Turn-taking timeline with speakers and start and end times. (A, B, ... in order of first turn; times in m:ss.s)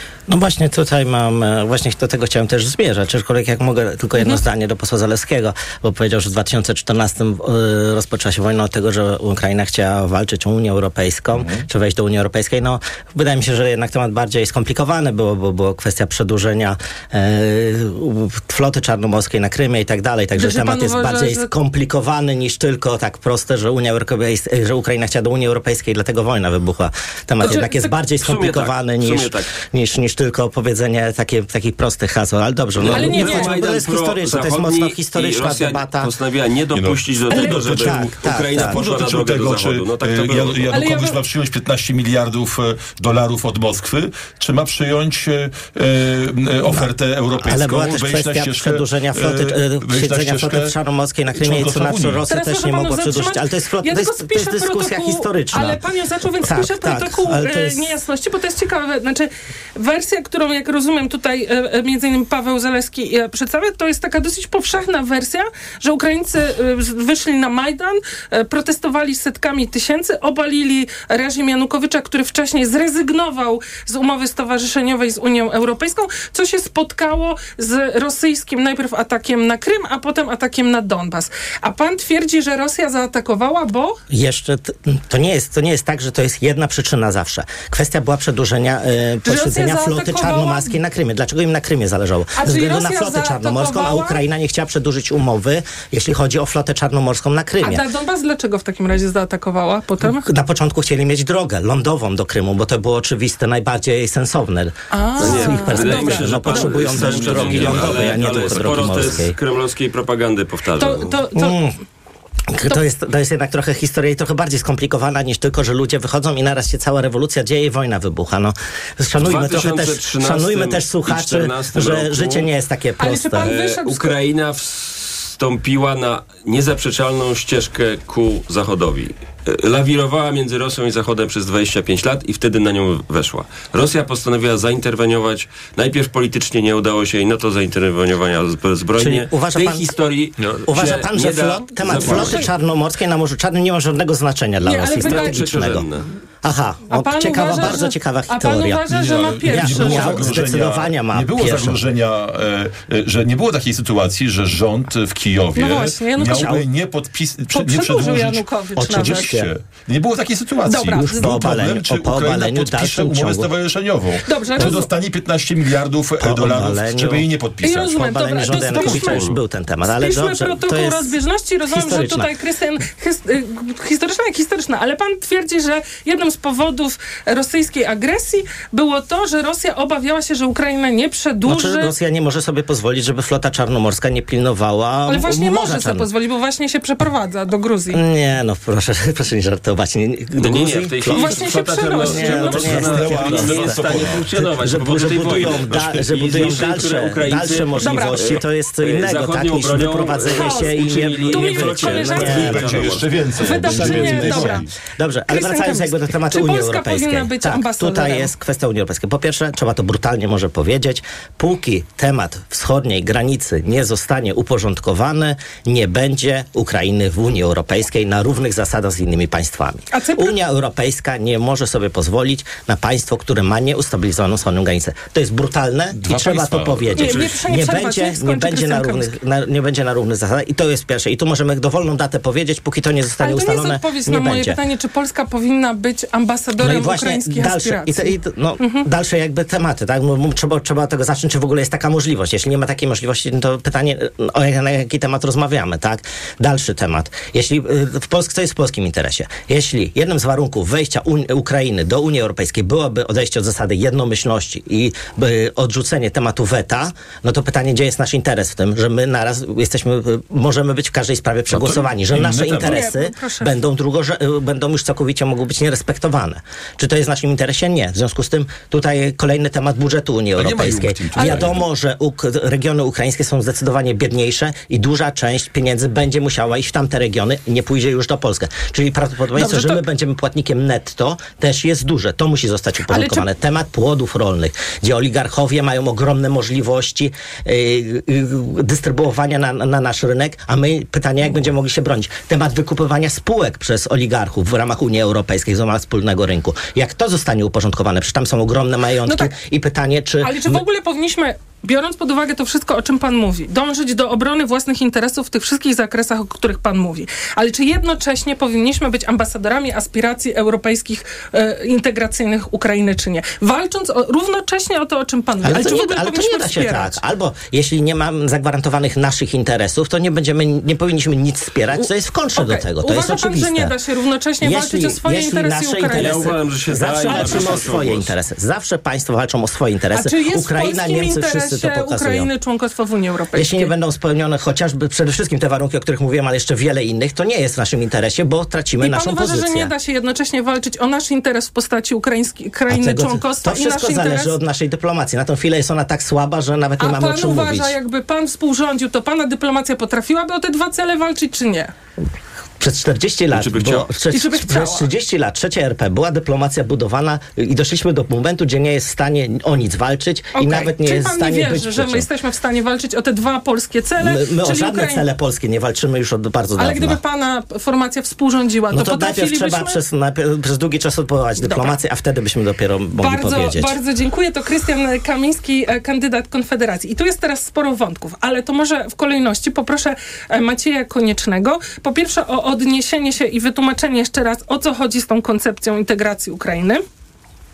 0:00.3-0:36.1 A
0:20.4-0:21.5 B
0:27.4-0:27.9 B
0:28.2-0:29.5 C
0:32.8-0:40.7 C
0:32.9-0:33.5 B
0:36.7-0:37.0 D
0:37.3-0:37.6 B
0:37.3-0:38.8 A
0:37.6-0:37.9 D
0:38.5-0:50.7 D
0:40.7-0:41.2 B
0:47.4-0:55.8 A
0:51.3-0:52.2 D
0:52.3-1:24.0 B
0:56.4-0:57.9 A
1:24.1-1:37.8 A
1:29.2-1:30.7 B
1:32.4-1:34.2 B
1:37.6-1:40.2 B
1:40.0-1:49.3 A
1:44.9-1:47.8 B
1:45.2-1:51.2 C
1:47.0-1:49.1 D
1:50.8-1:51.6 B
1:51.4-1:51.7 A
1:52.5-2:03.5 A
1:59.2-2:02.5 C
2:03.0-2:04.1 B
2:03.4-2:22.5 C
2:19.0-2:19.9 A
2:20.4-2:21.0 D
2:20.6-2:25.9 A
2:24.6-2:25.6 B
2:25.0-2:26.0 C
2:26.4-2:28.9 A
2:26.9-2:30.4 B
2:28.9-2:47.9 D
2:29.5-2:31.8 A
2:35.5-2:36.6 B
2:36.2-2:36.6 A
2:37.5-2:39.4 B
2:38.8-2:39.5 A
2:40.6-2:41.4 B
2:40.9-2:43.5 A
2:44.2-2:44.9 B
2:46.2-2:47.2 A
2:47.6-2:49.3 B
2:47.8-2:51.2 A
2:48.5-2:49.3 D
2:49.9-3:01.9 B
2:51.7-2:52.3 A
3:01.4-3:06.1 A
3:05.1-3:08.0 B
3:07.9-3:23.0 A
3:10.4-3:23.1 C
3:11.1-3:12.8 B
3:12.5-3:14.2 D
3:15.2-3:16.8 D
3:17.7-3:18.2 B
3:20.2-3:22.6 B
3:22.2-3:24.6 D
3:23.4-3:24.6 B
3:23.5-3:54.6 A
3:25.3-3:28.3 B
3:39.9-3:40.4 B
3:46.0-3:47.4 D
3:47.0-3:49.1 B
3:53.2-3:58.8 B
3:56.6-5:00.6 A
4:21.5-4:22.9 D
4:22.6-4:23.6 B
4:30.4-4:31.6 D
4:31.2-4:31.5 B
4:39.3-4:39.8 B
4:42.9-4:43.3 B
4:59.0-4:59.3 B
5:00.2-5:17.0 B
5:15.4-5:23.8 A
5:21.7-5:26.3 B
5:24.4-5:32.3 A
5:25.9-5:28.1 C
5:27.0-5:27.7 B
5:29.9-5:33.7 B
5:33.3-5:39.7 A
5:38.8-5:44.3 B
5:42.7-5:47.8 A
5:46.8-5:51.7 B
5:52.6-6:02.1 A
5:53.3-5:53.9 C
5:54.1-5:54.9 B
6:00.3-6:05.0 B
6:04.0-6:07.0 A
6:06.6-6:09.8 B
6:08.7-6:13.8 A
6:11.4-6:11.8 B
6:13.0-6:26.8 B